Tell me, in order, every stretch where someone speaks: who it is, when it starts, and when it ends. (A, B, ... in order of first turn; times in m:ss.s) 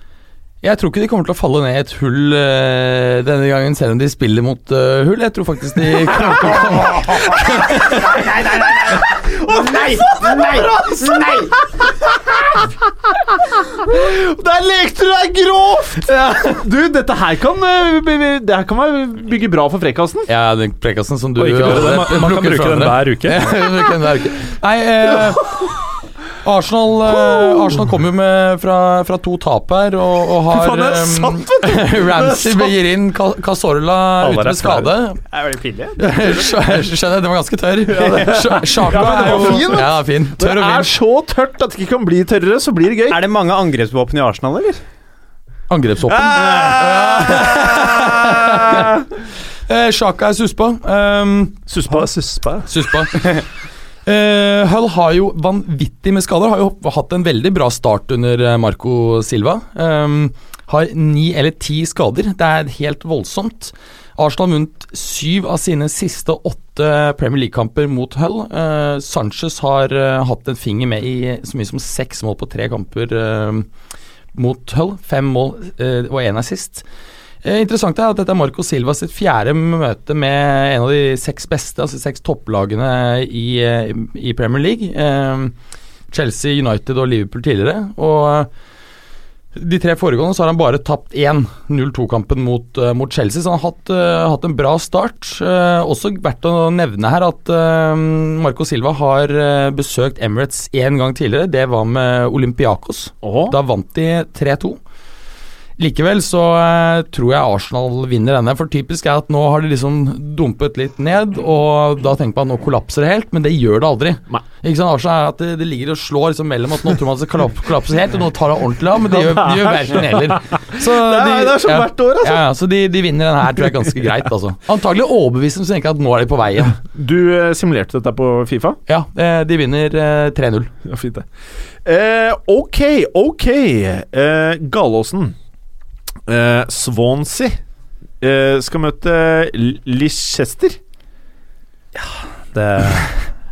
0:00.6-0:11.5 A
0:08.0-0:10.6 B
0:08.2-0:10.8 C
0:12.0-0:12.7 C
0:13.4-0:20.3 C
0:20.3-0:25.7 A
0:21.4-0:23.5 D
0:26.4-0:35.2 A
0:27.1-0:27.7 C
0:30.5-0:32.8 C
0:34.2-0:34.9 D
0:35.3-0:36.5 B
0:36.0-0:40.9 A
0:37.9-0:43.2 C
0:43.1-0:44.8 B
0:45.7-0:49.0 A
0:46.0-0:49.0 C
0:49.7-0:51.6 A
0:51.7-0:52.1 C
0:51.8-0:52.7 D
0:52.6-0:53.4 A
0:54.0-1:13.7 A
1:14.3-1:16.8 A
1:17.4-1:25.5 A
1:26.1-1:28.5 A
1:29.5-1:44.8 A
1:43.2-1:43.6 C
1:45.8-2:06.8 A
1:59.1-2:02.4 C
2:06.8-2:08.8 C
2:08.9-2:10.7 A
2:10.8-2:11.3 C
2:11.8-2:15.4 C
2:16.3-2:17.6 C
2:18.2-2:20.8 C
2:22.5-2:23.3 D